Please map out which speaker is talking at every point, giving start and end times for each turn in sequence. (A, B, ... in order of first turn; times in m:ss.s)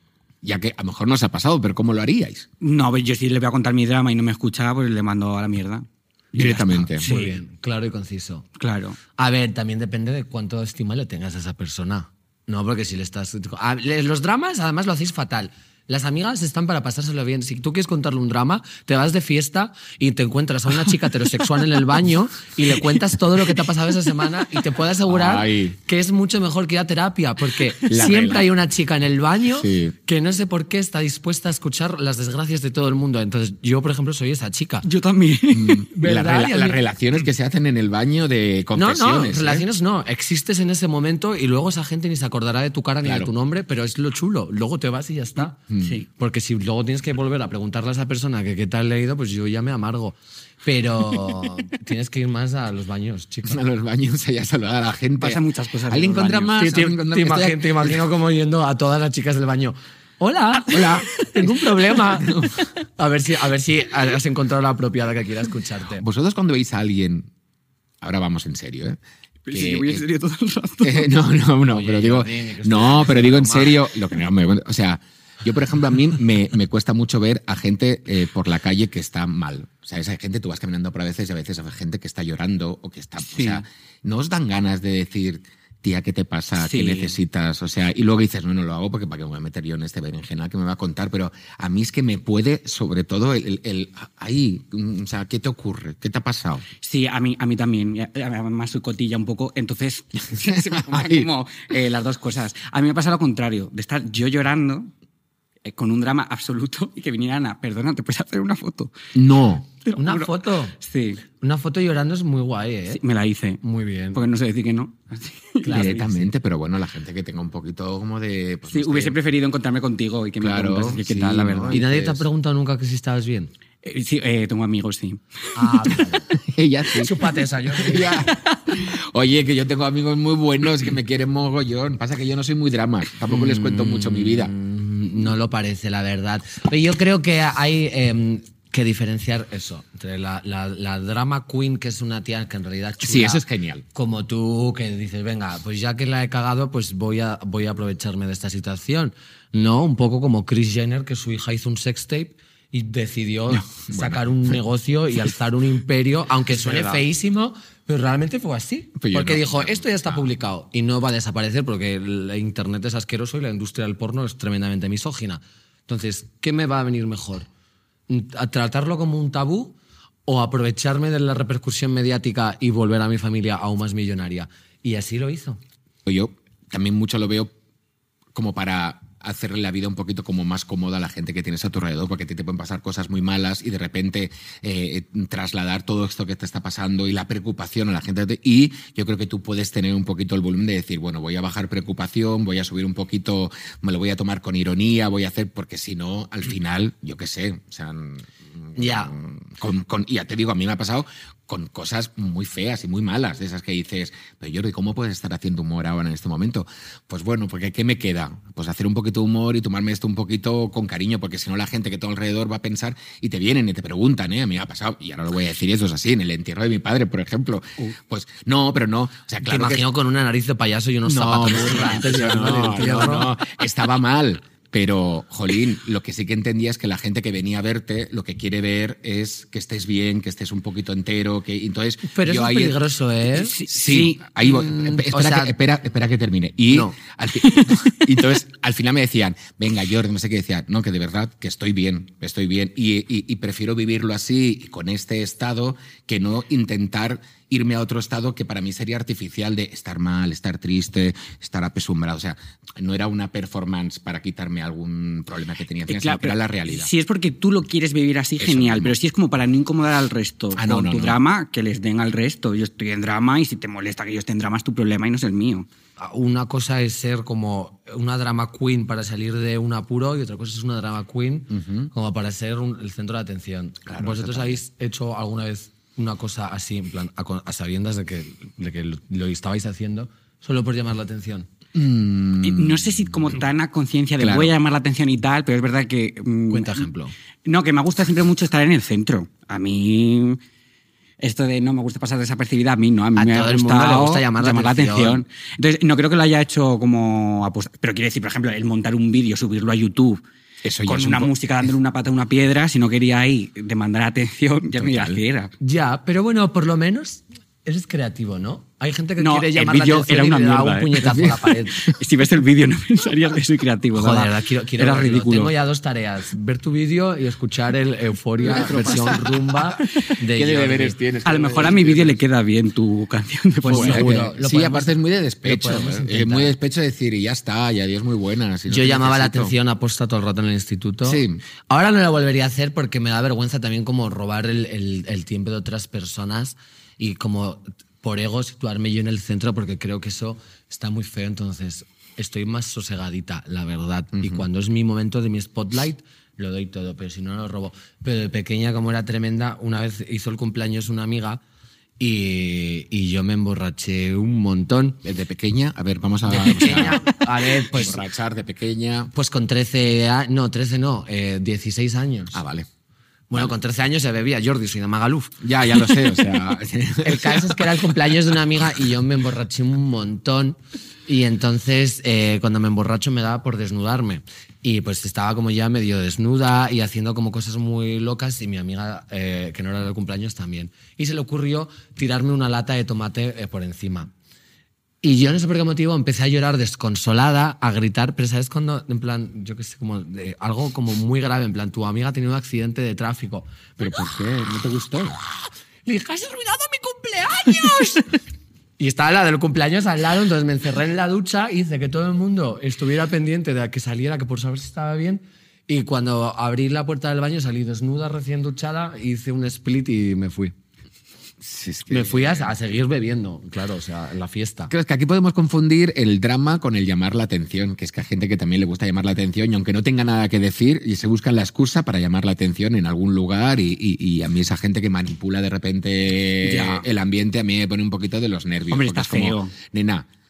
0:00.4-0:02.5 A
0:02.6-0:07.4 B
0:06.3-0:07.1 A
0:06.4-0:08.5 C
0:08.6-0:09.0 B
0:09.2-0:34.8 C
0:25.1-0:25.8 A
0:27.9-0:28.5 A
0:29.6-0:29.9 A
0:34.8-0:35.9 B
0:35.5-0:39.6 A
0:35.9-0:36.8 C
0:38.7-0:45.6 C
0:43.0-0:43.3 A
0:45.7-0:46.0 A
0:45.8-0:46.0 B
0:46.2-0:53.6 C
0:53.4-0:58.0 A
0:55.2-0:56.6 B
0:56.6-1:06.0 C
1:00.7-1:01.1 A
1:00.8-1:01.6 B
1:02.1-1:02.7 A
1:06.0-1:07.3 A
1:08.0-1:09.0 A
1:09.4-1:11.1 B
1:09.5-1:10.0 A
1:10.8-1:36.6 A
1:11.7-1:13.8 C
1:23.2-1:23.6 B
1:26.6-1:27.2 B
1:36.8-1:44.9 B
1:40.2-1:41.3 A
1:45.6-1:48.9 B
1:49.1-1:49.7 A
1:49.8-1:51.2 B
1:50.0-1:50.7 C
1:51.4-1:53.0 C
1:52.9-1:53.6 B
1:53.6-1:54.2 C
1:54.1-1:56.2 B
1:55.6-1:56.2 C
1:55.7-1:59.2 A
1:58.7-2:01.8 B
2:00.4-2:02.2 A
2:01.7-2:03.5 C
2:03.8-2:06.0 B
2:05.5-2:06.3 C
2:06.4-2:07.1 A
2:06.9-2:08.2 C
2:07.8-2:14.5 A
2:08.3-2:08.6 B
2:13.3-2:23.4 C
2:23.0-2:23.8 A
2:23.9-2:47.5 C
2:33.5-2:34.6 A
2:36.5-2:37.0 B
2:39.0-2:40.3 A
2:48.1-2:55.6 C
2:56.0-2:57.5 A
2:58.3-3:39.8 A
3:18.8-3:19.1 C
3:39.4-3:43.4 C
3:41.0-3:52.8 A
3:52.1-3:53.6 C
3:53.3-3:54.2 B
3:53.6-4:16.9 A
3:54.4-3:55.5 C
3:56.7-3:57.0 C
3:57.4-3:58.0 B
4:15.9-4:25.7 B
4:18.4-4:18.9 A
4:20.5-4:21.2 A
4:26.0-4:41.5 C
4:31.5-4:31.9 A
4:33.8-4:34.6 A
4:41.7-4:43.3 A
4:42.4-4:46.9 B
4:44.2-4:44.5 A
4:46.5-4:47.1 C
4:47.4-4:50.4 B
4:51.2-5:00.2 B
4:53.2-4:55.2 C
5:00.6-5:01.3 A
5:00.8-5:05.5 B
5:04.8-5:05.2 A
5:05.6-5:11.9 C
5:09.2-5:15.5 B
5:11.0-5:11.9 A
5:13.9-5:21.0 C
5:18.4-5:20.1 B
5:18.4-5:19.5 A
5:20.3-5:22.2 A
5:21.2-5:24.2 B
5:23.6-5:26.5 C
5:23.7-5:29.5 A
5:28.7-5:51.4 C
5:31.0-5:31.4 A
5:44.1-5:44.4 A
5:52.0-5:55.0 C
5:55.0-5:59.1 A
5:56.3-5:58.0 C
5:59.1-6:02.4 C
6:02.3-6:02.7 A
6:03.3-6:05.3 C
6:05.4-6:07.9 A
6:07.0-6:24.1 C
6:25.0-6:33.6 C
6:33.8-6:35.2 A
6:35.8-6:38.1 C
6:38.8-6:50.5 C
6:51.4-6:52.5 A
6:51.9-6:54.7 C
6:54.7-7:10.1 A
7:06.4-7:06.8 B
7:08.7-7:09.5 B